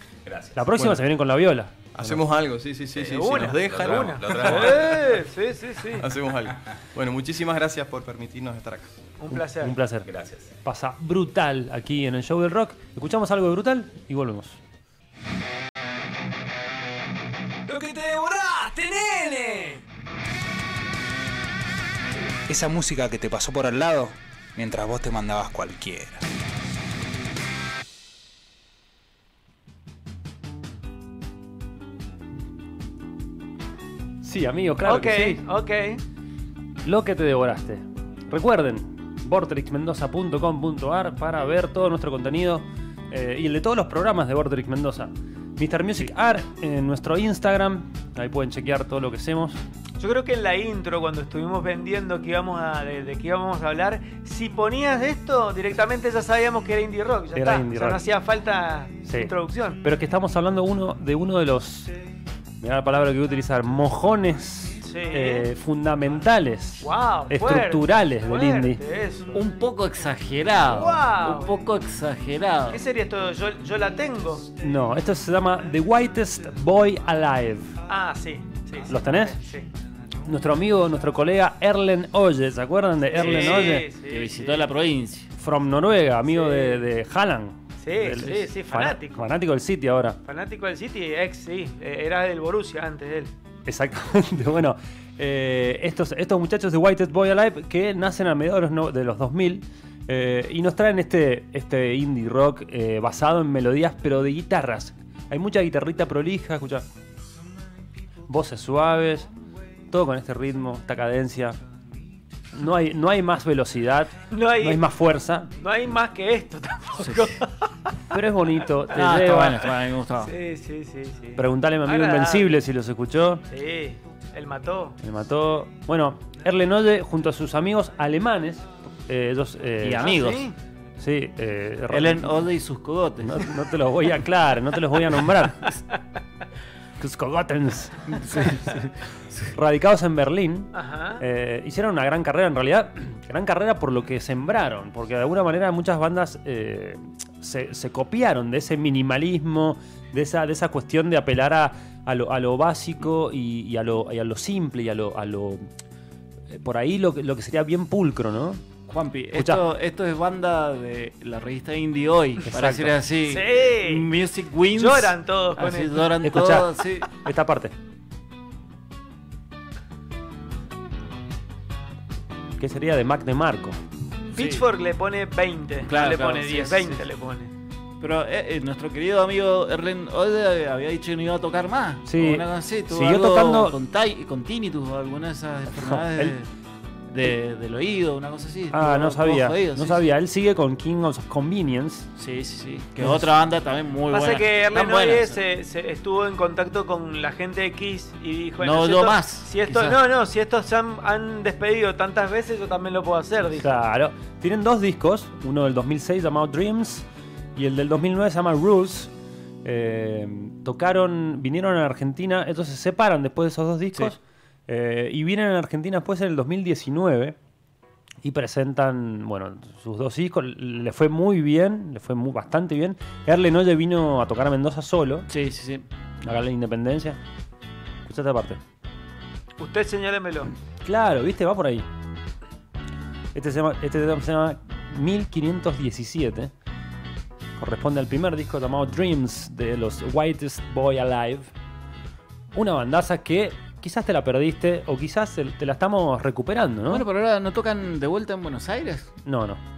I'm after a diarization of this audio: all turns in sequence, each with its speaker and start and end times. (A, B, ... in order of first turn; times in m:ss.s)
0:00.2-0:00.8 A
0:00.5-0:02.2 B
0:01.9-0:04.9 C
0:02.9-0:05.2 A
0:03.1-0:06.1 D
0:05.9-0:08.9 C
0:09.2-0:09.8 D
0:09.3-0:10.1 B
0:10.0-0:10.5 A
0:10.6-0:14.6 B
0:17.7-0:19.8 D
0:22.5-0:26.2 E
0:34.2-0:35.4 B
0:34.8-0:36.0 D
0:36.8-0:49.6 B
0:50.0-0:59.8 D
0:57.3-0:58.0 B
0:59.0-1:01.9 B
1:02.6-1:08.8 B
1:04.8-1:05.5 D
1:06.8-1:09.4 D
1:09.3-1:12.8 F
1:10.6-1:11.5 D
1:12.7-1:14.5 D
1:14.6-1:17.8 B
1:17.9-1:19.7 D
1:18.9-1:19.4 B
1:20.2-1:23.9 B
1:23.1-1:24.7 D
1:23.2-1:25.3 F
1:25.4-1:30.2 B
1:26.3-1:26.8 D
1:27.8-1:29.2 D
1:28.1-1:28.4 F
1:30.2-1:33.3 D
1:33.6-1:46.8 B
1:48.3-1:49.3 B
1:49.9-1:51.6 B
1:52.5-1:55.5 B
1:54.3-1:54.8 D
1:55.6-1:57.7 D
1:57.0-1:57.3 F
1:58.1-1:59.7 B
1:58.9-2:00.3 F
2:00.2-2:02.5 D
2:01.4-2:03.4 B
2:03.5-2:05.0 D
2:05.0-2:10.2 B
2:09.8-2:10.4 F
2:10.0-2:10.6 D
2:11.0-2:12.4 B
2:11.9-2:13.5 F
2:13.2-2:15.8 B
2:17.0-2:18.8 B
2:18.2-2:18.8 F
2:19.5-2:35.7 B
2:20.7-2:21.2 D
2:36.5-2:38.6 B
2:38.9-2:47.1 F
2:39.3-2:39.6 B
2:42.5-2:43.0 B
2:43.2-2:44.1 D
2:44.7-2:46.1 D
2:46.2-2:47.7 B
2:52.6-2:53.8 B
2:54.3-2:57.5 D
2:54.4-2:54.7 F
2:55.8-2:57.0 F
2:58.0-3:06.5 F
3:02.0-3:03.8 B
3:05.7-3:06.3 B
3:07.1-3:10.0 F
3:08.7-3:12.1 B
3:12.2-3:15.4 F
3:13.0-3:13.3 B
3:14.1-3:23.7 D
3:18.6-3:20.0 F
3:23.6-3:27.0 B
3:27.6-3:29.1 B
3:29.6-3:37.4 B
3:38.2-3:45.3 B
3:45.3-3:45.8 F
3:46.2-3:47.2 B
3:48.0-3:48.6 B
3:49.6-3:50.5 D
3:50.8-3:51.8 B
3:53.3-3:56.5 B
3:57.6-4:01.5 B
4:02.5-4:07.0 B
4:06.9-4:09.1 F
4:09.2-4:09.6 B